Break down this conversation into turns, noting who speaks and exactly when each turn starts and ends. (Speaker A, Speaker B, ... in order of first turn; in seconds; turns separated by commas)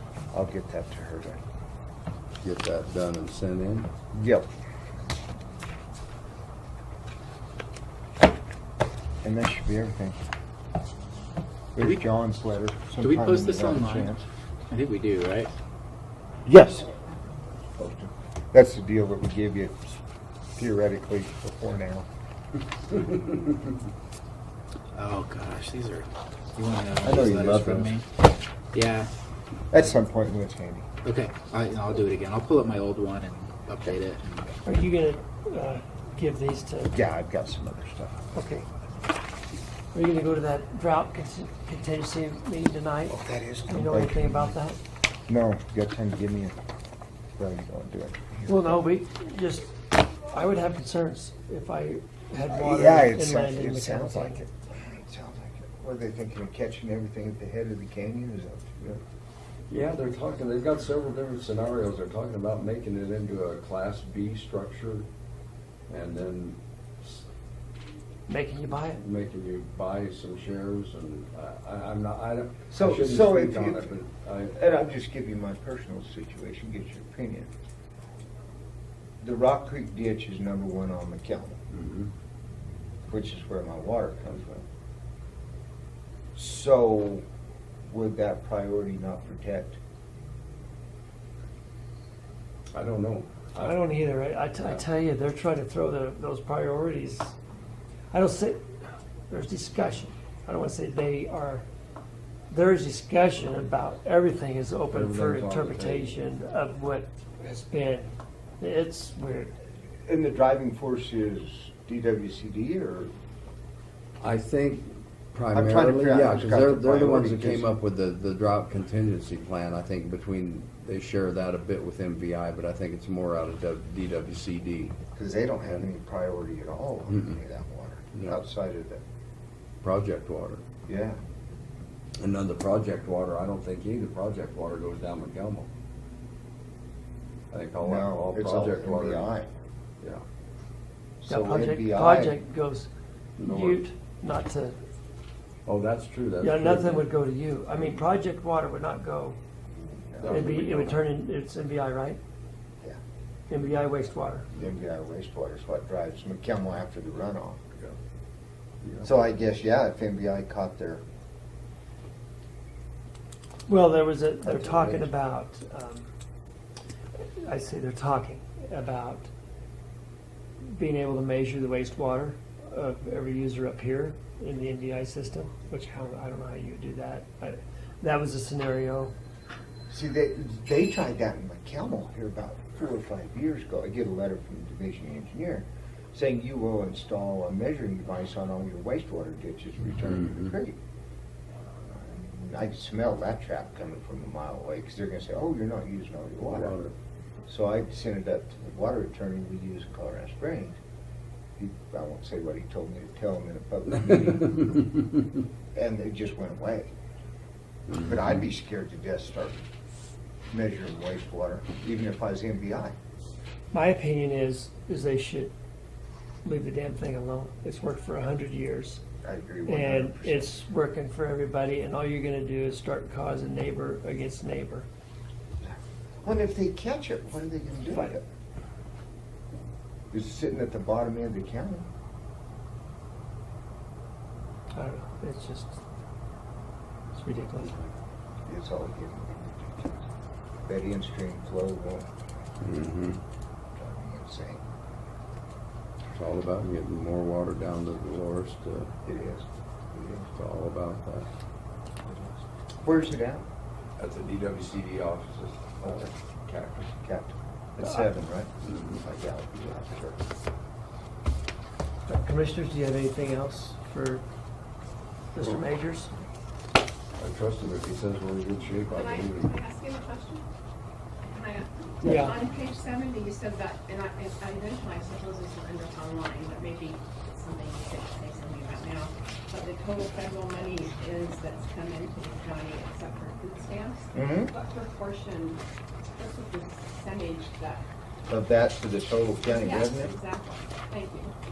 Speaker A: 0.3-1.4, Speaker B: 2.4-3.9, Speaker A: 4.1-4.5, Speaker A: 9.2-10.2, Speaker A: 11.7-14.2, Speaker C: 13.0-14.1, Speaker C: 14.7-15.5, Speaker A: 16.4-17.0, Speaker A: 17.7-20.0, Speaker A: 20.5-22.1, Speaker C: 24.9-28.1, Speaker A: 27.0-27.9, Speaker C: 28.7-29.1, Speaker A: 29.7-30.9, Speaker C: 31.0-34.4, Speaker D: 34.6-36.9, Speaker A: 36.9-38.2, Speaker D: 38.3-38.7, Speaker D: 39.9-44.8, Speaker A: 43.1-44.6, Speaker A: 45.3-46.5, Speaker A: 47.4-48.8, Speaker D: 48.5-54.4, Speaker A: 52.5-59.0, Speaker B: 59.7-65.1, Speaker B: 65.9-67.3, Speaker D: 68.3-69.0, Speaker B: 68.9-74.6, Speaker A: 72.7-77.5, Speaker A: 79.2-81.6, Speaker B: 81.7-82.1, Speaker A: 83.1-84.6, Speaker A: 86.3-87.2, Speaker A: 87.9-89.8, Speaker B: 92.7-94.8, Speaker D: 93.6-97.3, Speaker D: 98.1-98.6, Speaker D: 99.3-101.7, Speaker D: 102.5-109.5, Speaker B: 104.9-106.2, Speaker A: 110.0-113.1, Speaker B: 114.2-125.0, Speaker A: 115.5-117.7, Speaker A: 125.1-129.0, Speaker B: 128.1-128.4, Speaker B: 129.8-130.6, Speaker A: 130.9-131.2, Speaker B: 132.2-135.7, Speaker B: 137.5-139.3, Speaker A: 137.8-139.5, Speaker A: 141.2-142.4, Speaker D: 141.3-142.9, Speaker B: 143.4-143.8, Speaker D: 143.4-144.8, Speaker B: 145.7-147.1, Speaker D: 146.4-149.4, Speaker A: 149.9-150.6, Speaker B: 150.2-151.0, Speaker D: 150.3-152.2, Speaker D: 153.5-154.4, Speaker A: 154.5-157.8, Speaker B: 158.8-159.1, Speaker A: 159.0-161.0, Speaker D: 163.7-166.1, Speaker A: 164.4-165.1, Speaker D: 167.4-169.3, Speaker D: 170.7-179.1, Speaker A: 179.9-190.8, Speaker B: 190.0-190.5, Speaker A: 191.9-196.8, Speaker B: 196.5-196.9, Speaker A: 197.5-200.8, Speaker A: 201.6-204.8, Speaker A: 205.7-206.9, Speaker A: 207.9-209.6, Speaker A: 210.5-212.9, Speaker D: 213.7-215.5, Speaker D: 216.4-219.0, Speaker A: 219.2-220.5, Speaker D: 219.7-224.9, Speaker A: 225.6-228.2, Speaker A: 230.1-231.9, Speaker D: 234.7-235.8, Speaker D: 237.1-237.7, Speaker A: 238.4-240.1, Speaker A: 240.7-242.1, Speaker B: 242.6-243.2, Speaker A: 243.7-244.6, Speaker B: 246.1-248.9, Speaker A: 249.0-250.3, Speaker B: 250.3-251.3, Speaker A: 252.8-253.4, Speaker B: 254.0-256.9, Speaker A: 255.8-256.1, Speaker A: 256.9-260.2, Speaker D: 262.1-264.2, Speaker D: 265.3-266.1, Speaker B: 267.2-269.5, Speaker E: 268.9-270.4, Speaker E: 271.3-287.9, Speaker D: 272.0-272.4, Speaker A: 284.1-284.5, Speaker A: 288.3-290.1, Speaker E: 289.4-291.3